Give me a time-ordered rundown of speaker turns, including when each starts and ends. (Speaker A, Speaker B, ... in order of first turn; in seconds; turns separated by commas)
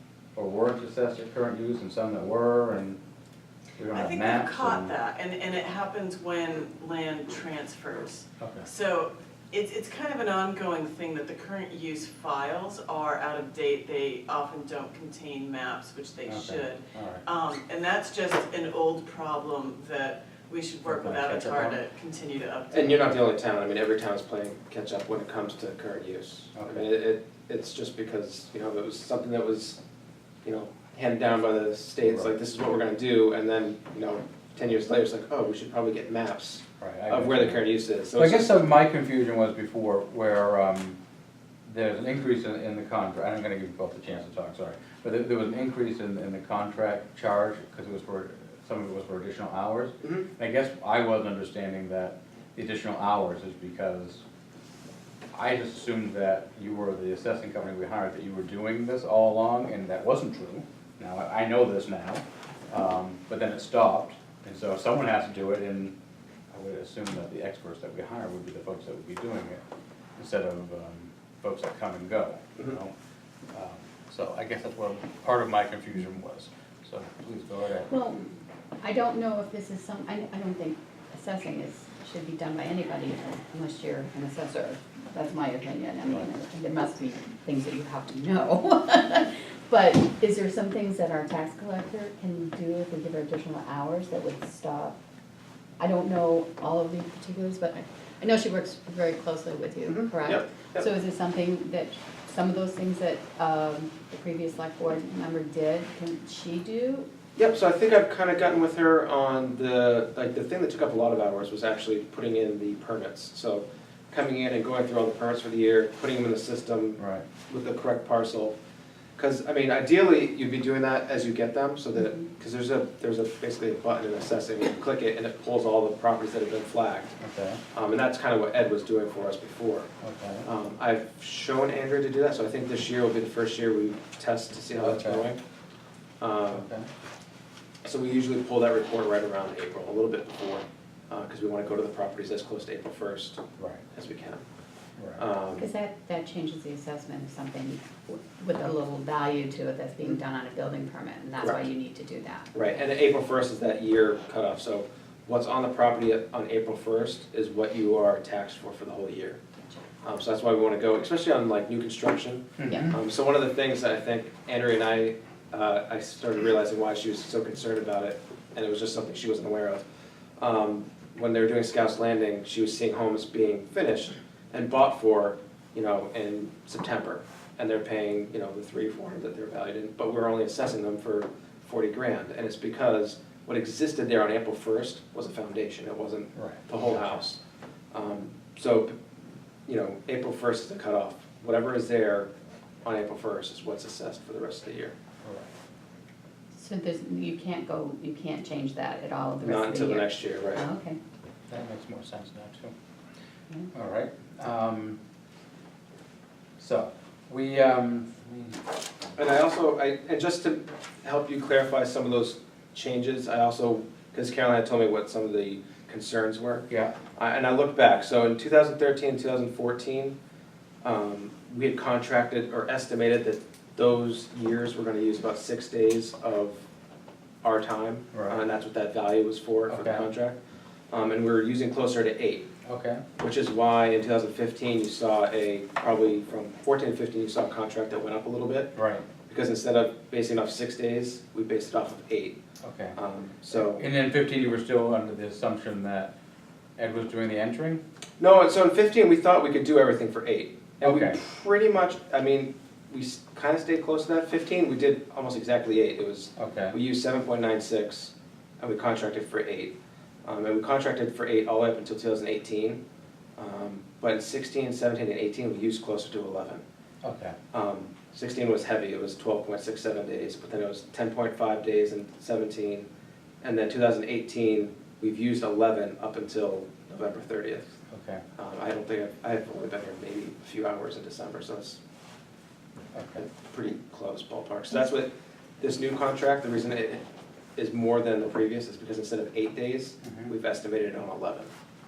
Speaker A: 0.3-3.0, Speaker A: 3.8-4.9, Speaker B: 3.9-22.9, Speaker A: 8.4-8.7, Speaker A: 16.2-17.2, Speaker A: 20.9-21.8, Speaker C: 22.7-29.8, Speaker A: 26.5-26.9, Speaker C: 30.4-38.6, Speaker A: 32.0-32.3, Speaker A: 36.8-37.6, Speaker A: 38.2-41.0, Speaker A: 41.6-54.2, Speaker A: 55.3-65.9, Speaker A: 66.5-69.6, Speaker A: 70.2-72.9, Speaker A: 73.5-77.9, Speaker D: 77.9-95.0, Speaker D: 95.8-107.1, Speaker C: 99.8-100.9, Speaker C: 107.3-118.5, Speaker A: 117.0-117.2, Speaker C: 119.2-127.2, Speaker A: 127.2-127.6, Speaker C: 127.7-129.9, Speaker A: 130.0-130.4, Speaker C: 130.4-135.4, Speaker A: 134.8-135.3, Speaker C: 136.2-136.7, Speaker A: 136.5-136.9, Speaker C: 137.8-143.4, Speaker A: 143.6-143.8, Speaker C: 143.9-144.4, Speaker A: 145.0-145.2, Speaker C: 145.2-145.7, Speaker D: 145.6-152.8, Speaker C: 152.5-159.4, Speaker C: 160.0-169.8, Speaker A: 162.6-162.9, Speaker C: 170.4-187.4, Speaker A: 186.3-187.2, Speaker C: 187.9-188.9, Speaker C: 189.7-192.3, Speaker C: 192.8-194.9, Speaker A: 195.2-195.5, Speaker D: 196.5-201.0, Speaker C: 199.4-200.6, Speaker A: 201.5-202.7, Speaker A: 203.7-205.0, Speaker A: 206.6-208.6, Speaker C: 209.2-220.2, Speaker A: 216.7-216.9, Speaker C: 220.8-226.6, Speaker C: 227.4-230.3, Speaker A: 228.1-228.4, Speaker A: 229.7-230.1, Speaker C: 230.9-232.5, Speaker A: 232.6-233.0, Speaker C: 233.2-238.7, Speaker A: 238.7-239.0, Speaker C: 239.3-242.4, Speaker A: 242.6-242.9, Speaker C: 242.9-243.8, Speaker A: 243.5-246.1, Speaker A: 246.8-247.8, Speaker C: 248.2-259.7, Speaker A: 250.8-251.2, Speaker A: 256.4-256.7, Speaker C: 260.2-262.8, Speaker C: 263.4-266.6, Speaker A: 267.0-267.4, Speaker C: 267.5-272.9, Speaker C: 273.4-277.7, Speaker A: 277.9-278.2, Speaker C: 278.4-281.8, Speaker A: 282.9-283.2, Speaker C: 283.2-287.0, Speaker C: 287.6-291.5, Speaker A: 290.0-290.3